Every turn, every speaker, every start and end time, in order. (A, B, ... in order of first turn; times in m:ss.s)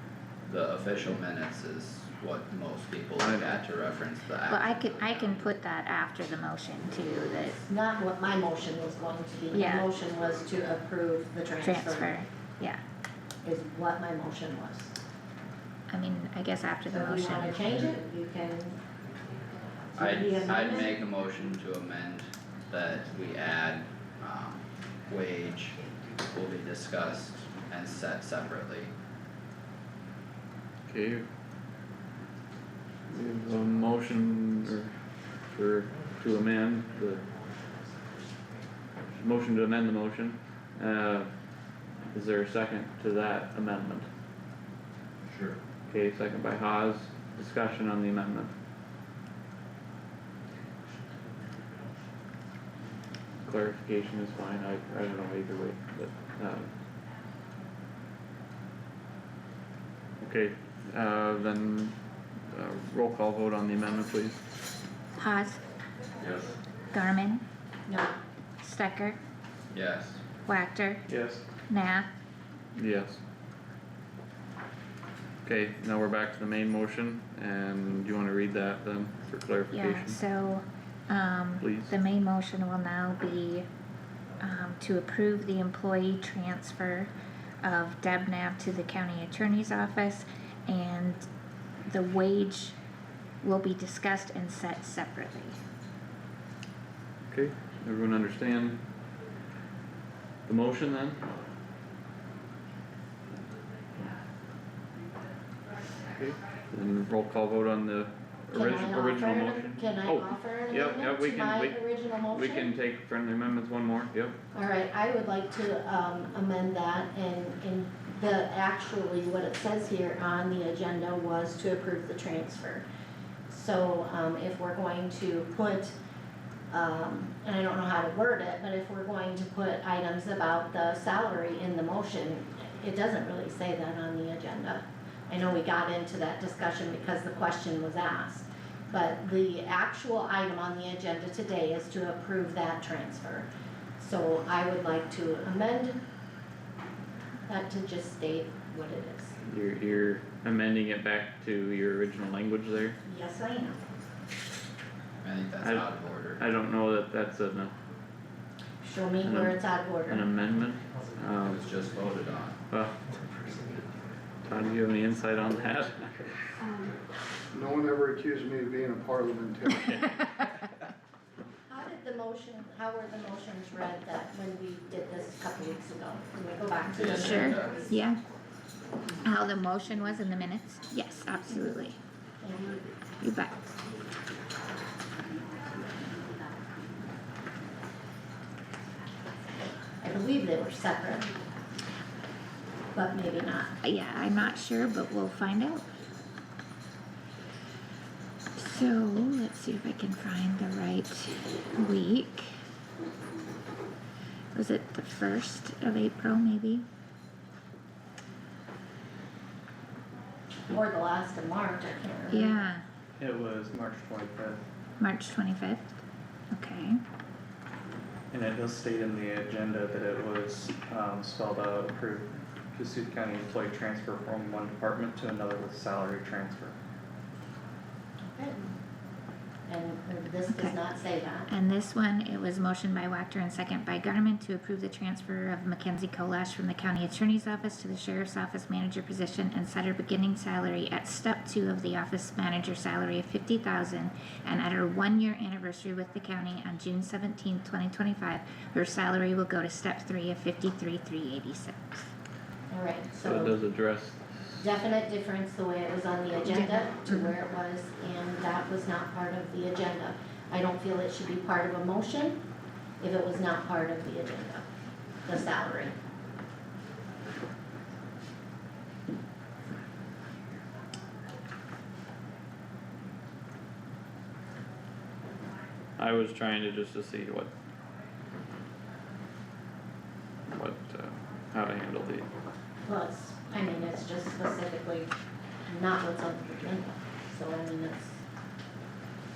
0:00.4-0:05.5 A
0:03.2-0:03.6 B
0:04.5-0:07.6 C
0:07.6-0:12.2 D
0:09.5-0:09.9 C
0:11.6-0:12.8 C
0:13.4-0:14.9 D
0:15.9-0:17.6 C
0:16.9-0:18.8 D
0:19.9-0:21.0 D
0:20.0-0:28.9 A
0:30.9-0:31.3 B
0:33.1-0:37.2 B
0:39.1-0:41.3 B
0:42.1-0:44.1 B
0:45.9-0:48.5 B
0:53.4-0:56.7 B
1:00.2-1:01.9 B
1:02.5-1:04.4 B
1:05.2-1:05.6 C
1:06.2-1:06.6 A
1:06.9-1:07.4 C
1:07.9-1:08.2 D
1:08.6-1:09.2 C
1:09.7-1:10.2 A
1:10.4-1:11.0 C
1:11.1-1:11.4 E
1:11.7-1:12.1 C
1:12.7-1:13.2 B
1:15.4-1:20.2 B
1:19.7-1:23.7 C
1:21.6-1:22.0 B
1:24.4-1:27.1 C
1:27.6-1:31.2 C
1:31.8-1:32.7 C
1:33.4-1:35.6 C
1:37.3-1:38.8 B
1:40.5-1:41.2 B
1:46.1-1:54.3 B
1:48.5-1:52.7 D
1:54.5-2:02.8 D
2:03.5-2:05.9 D
2:06.7-2:23.5 D
2:24.0-2:26.0 D
2:27.4-2:29.3 D
2:29.4-2:33.0 B
2:33.0-2:33.8 D
2:35.2-2:36.4 A
2:35.6-2:37.7 B
2:38.8-2:40.3 D
2:39.2-2:41.6 B
2:41.5-2:42.6 A
2:42.7-2:42.9 B
2:44.5-2:46.1 B
2:47.5-2:49.9 F
2:51.7-2:57.9 D
2:56.9-2:57.8 A
2:57.2-2:58.2 C
2:59.2-3:02.0 C
3:02.4-3:02.8 D
3:03.2-3:03.5 C
3:10.0-3:11.3 D
3:12.9-3:13.7 D
3:13.8-3:15.9 C
3:18.6-3:22.5 C
3:24.5-3:26.8 C
3:30.7-3:32.7 D
3:32.3-3:32.8 C
3:33.2-3:34.6 E
3:35.0-3:36.0 C
3:36.5-3:37.0 C
3:38.3-3:46.8 E
3:48.2-3:48.8 D
3:49.7-3:51.5 D
3:50.5-3:50.8 C
3:51.5-4:12.1 C
4:12.7-4:13.6 D
4:13.2-4:14.6 B
4:14.6-4:22.4 D
4:16.5-4:17.3 C
4:23.0-4:24.6 D
4:25.2-4:25.9 D
4:36.0-4:37.5 B
4:40.5-4:42.3 B
4:42.8-4:45.1 D
4:45.7-4:48.1 D